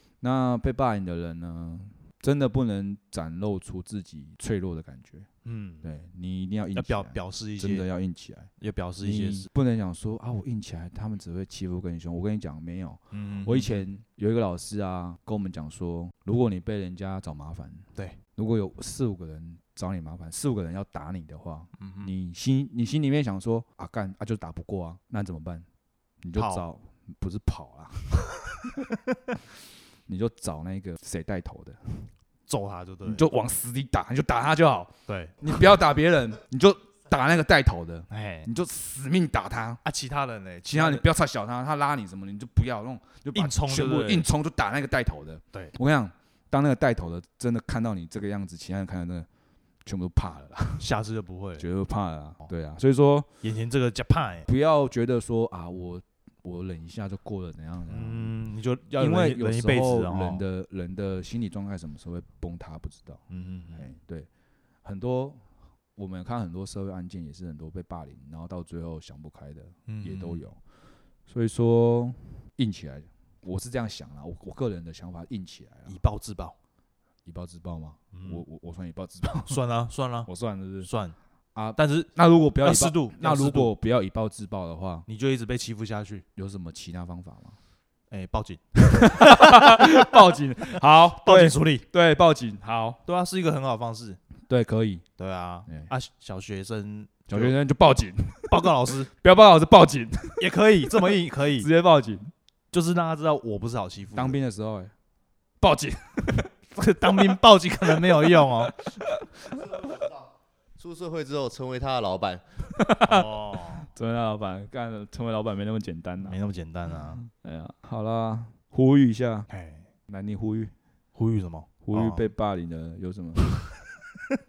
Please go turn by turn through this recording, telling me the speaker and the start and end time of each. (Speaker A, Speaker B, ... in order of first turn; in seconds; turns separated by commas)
Speaker A: 0.2-5.3, Speaker B: 5.4-5.9, Speaker A: 5.8-8.5, Speaker B: 6.8-7.9, Speaker B: 8.6-9.5, Speaker A: 9.0-25.6, Speaker B: 13.1-13.8, Speaker B: 21.8-22.1, Speaker A: 26.2-28.8, Speaker B: 26.4-26.6, Speaker A: 30.1-32.1, Speaker B: 32.5-33.2, Speaker A: 33.0-39.8, Speaker B: 35.1-35.4, Speaker B: 38.1-38.5, Speaker B: 39.8-41.0, Speaker A: 40.6-49.3, Speaker B: 43.3-44.3, Speaker A: 49.8-50.9, Speaker B: 50.8-51.6, Speaker A: 51.6-53.3, Speaker B: 53.4-54.5, Speaker A: 54.5-58.3, Speaker B: 57.9-60.4, Speaker A: 59.0-63.2, Speaker B: 63.3-63.9, Speaker A: 63.7-64.3, Speaker A: 64.8-65.4, Speaker A: 66.0-70.6, Speaker B: 69.9-70.5, Speaker A: 71.3-76.0, Speaker B: 75.9-76.5, Speaker A: 77.2-79.6, Speaker B: 78.1-78.4, Speaker B: 79.5-80.3, Speaker A: 80.2-80.9, Speaker B: 80.8-81.2, Speaker A: 81.5-85.0, Speaker B: 81.8-83.7, Speaker B: 85.1-86.2, Speaker A: 86.3-87.6, Speaker B: 88.1-90.1, Speaker A: 88.9-93.0, Speaker B: 91.1-91.8, Speaker B: 93.0-94.2, Speaker A: 94.5-95.0, Speaker B: 95.2-97.5, Speaker A: 95.7-95.9, Speaker A: 97.3-100.5, Speaker B: 98.5-99.1, Speaker B: 100.4-101.7, Speaker A: 101.5-102.3, Speaker B: 102.7-104.4, Speaker A: 104.1-104.9, Speaker A: 105.6-106.5, Speaker B: 106.7-108.8, Speaker A: 107.9-109.6, Speaker C: 109.4-112.4, Speaker A: 112.7-116.4, Speaker B: 113.0-113.9, Speaker B: 116.2-117.2, Speaker A: 117.1-119.5, Speaker B: 119.5-119.9, Speaker A: 120.1-120.7, Speaker B: 121.1-122.3, Speaker A: 121.8-123.6